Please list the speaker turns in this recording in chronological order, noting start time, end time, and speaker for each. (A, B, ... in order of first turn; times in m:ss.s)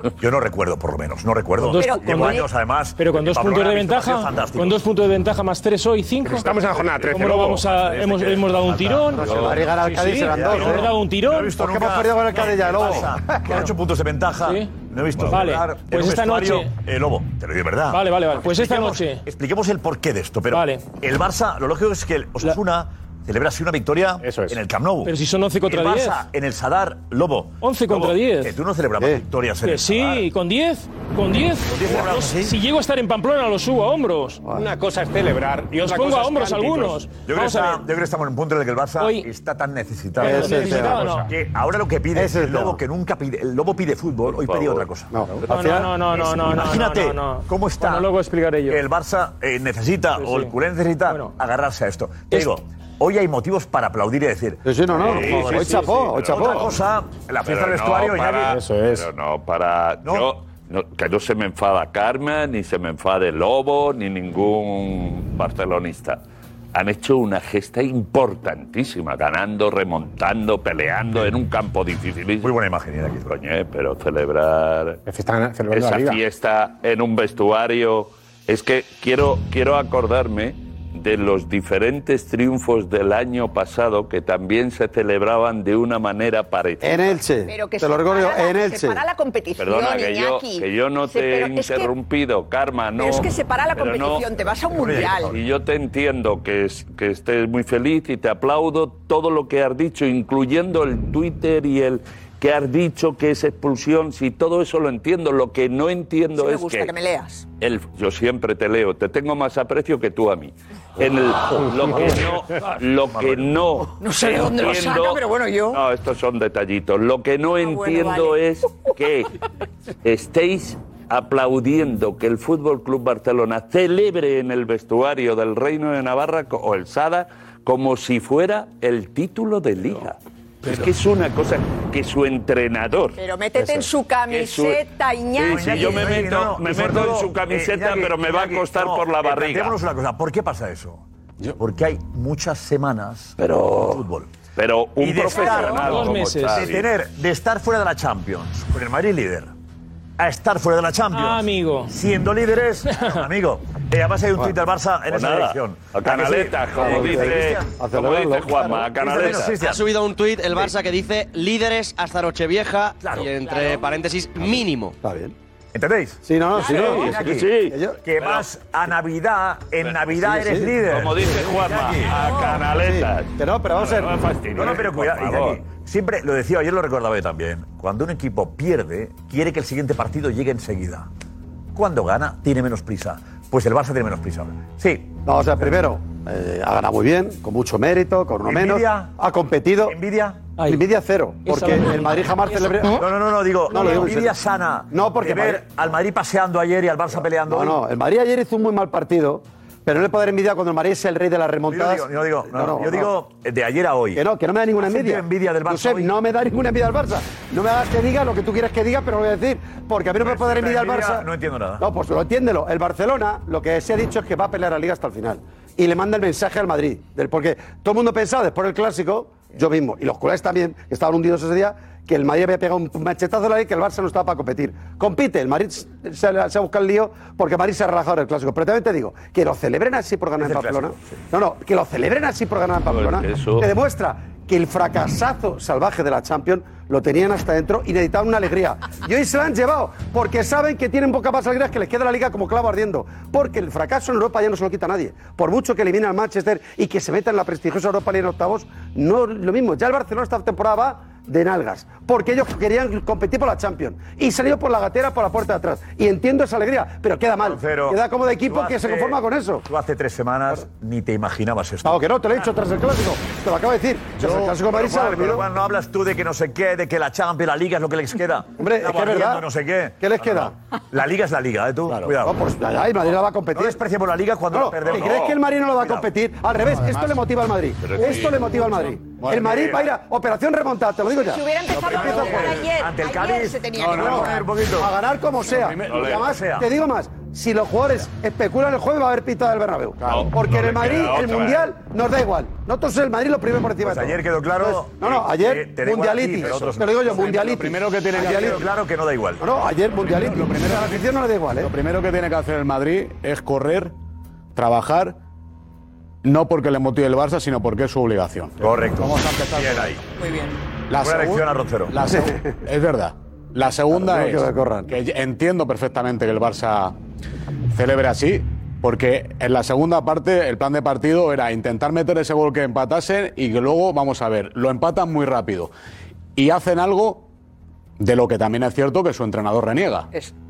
0:00.2-0:04.8 A
0:01.6-0:06.6 B
0:01.8-0:02.5 C
0:06.2-0:07.7 D
0:07.1-0:11.6 B
0:07.6-0:25.1 A
0:09.2-0:10.9 E
0:09.2-0:09.6 F
0:11.6-0:13.6 E
0:14.4-0:16.7 B
0:17.9-0:19.2 B
0:20.5-0:20.8 B
0:24.2-0:24.6 D
0:25.0-0:26.2 B
0:25.6-0:30.3 A
0:27.6-0:28.6 B
0:29.6-0:34.4 B
0:31.6-0:32.5 A
0:34.5-0:37.1 D
0:35.8-0:37.9 B
0:37.2-0:48.1 A
0:39.0-0:39.3 B
0:40.2-0:41.3 B
0:40.2-0:41.0 E
0:40.4-0:41.3 D
0:42.1-0:42.8 E
0:44.3-0:44.9 F
0:45.1-0:45.4 D
0:45.1-0:45.8 E
0:45.5-0:48.8 B
0:48.7-0:55.7 A
0:50.2-0:50.5 B
0:51.1-0:51.4 B
0:54.6-0:56.7 E
0:55.0-0:56.7 F
0:55.2-0:56.1 D
0:56.3-0:58.6 A
0:57.4-1:06.2 F
0:58.4-0:59.1 D
1:00.0-1:00.3 A
1:06.7-1:12.5 F
1:12.4-1:13.3 A
1:13.3-1:15.0 F
1:15.1-1:16.2 D
1:15.7-1:27.2 F
1:26.8-1:29.0 E
1:27.5-1:31.9 C
1:29.6-1:46.9 F
1:33.0-1:35.4 C
1:34.8-1:35.4 A
1:46.4-1:47.4 C
1:47.6-1:59.3 F
1:53.1-1:53.6 A
1:54.0-1:55.8 C
1:57.6-1:58.4 C
2:00.0-2:13.2 F
2:13.2-2:16.1 C
2:14.3-2:14.8 F
2:15.4-2:19.8 F
2:15.4-2:21.0 A
2:21.6-2:24.3 A
2:23.4-2:24.0 F
2:24.6-2:26.9 F
2:25.0-2:29.5 A
2:25.3-2:25.9 C
2:25.8-2:26.7 B
2:30.2-2:37.8 A
2:31.1-2:31.9 B
2:32.9-2:33.2 B
2:35.1-2:39.6 F
2:36.8-2:38.9 E
2:39.0-2:39.9 A
2:39.5-2:45.0 G
2:43.0-2:43.3 A
2:45.0-2:45.3 E
2:45.7-2:52.2 A
2:46.2-2:48.0 E
2:46.6-2:48.4 F
2:50.2-2:50.7 E
2:50.9-2:55.6 F
2:52.1-2:52.6 C
2:52.7-2:54.1 E
2:54.5-3:01.1 A
3:01.7-3:05.2 A
3:05.2-3:10.0 E
3:08.4-3:09.2 A
3:09.9-3:10.5 A
3:10.6-3:10.8 B
3:10.6-3:13.0 E
3:11.4-3:12.9 B
3:12.9-3:17.8 A
3:13.7-3:14.4 E
3:14.9-3:15.6 E
3:17.2-3:23.1 E
3:21.7-3:24.2 A
3:24.2-3:31.3 E
3:24.8-3:26.1 A
3:30.2-3:31.8 A
3:31.8-4:19.7 E
3:50.4-3:51.2 A
3:52.9-3:53.7 F
4:17.4-4:22.1 A
4:21.8-4:25.4 E
4:24.2-4:32.4 A
4:28.6-4:29.4 E
4:30.0-4:30.5 E
4:31.9-4:32.2 H
4:32.2-4:33.8 E
4:33.5-4:36.1 A
4:34.5-4:42.6 E
4:36.7-4:37.1 H
4:37.8-4:38.4 F
4:38.0-4:39.6 H
4:39.3-4:39.9 A
4:41.2-4:44.4 C
4:41.8-4:42.5 H
4:41.9-4:44.9 A
4:43.8-4:44.5 H
4:44.8-4:58.6 E
4:45.4-4:46.2 H
4:45.9-4:46.2 F
4:46.0-4:46.7 A
4:50.0-4:50.3 H
4:50.1-4:51.7 F
4:53.8-4:57.4 A
4:57.1-4:58.7 H
4:58.2-4:59.4 A
4:59.4-5:01.7 E
4:59.9-5:03.9 H
5:04.6-5:05.2 H
5:06.2-5:10.0 H
5:08.6-5:10.0 A
5:10.2-5:10.6 C
5:10.9-5:17.0 H
5:11.0-5:12.0 A
5:12.2-5:12.6 E
5:13.9-5:14.9 E
5:17.7-5:25.7 H
5:26.4-5:27.3 H
5:28.0-5:30.1 H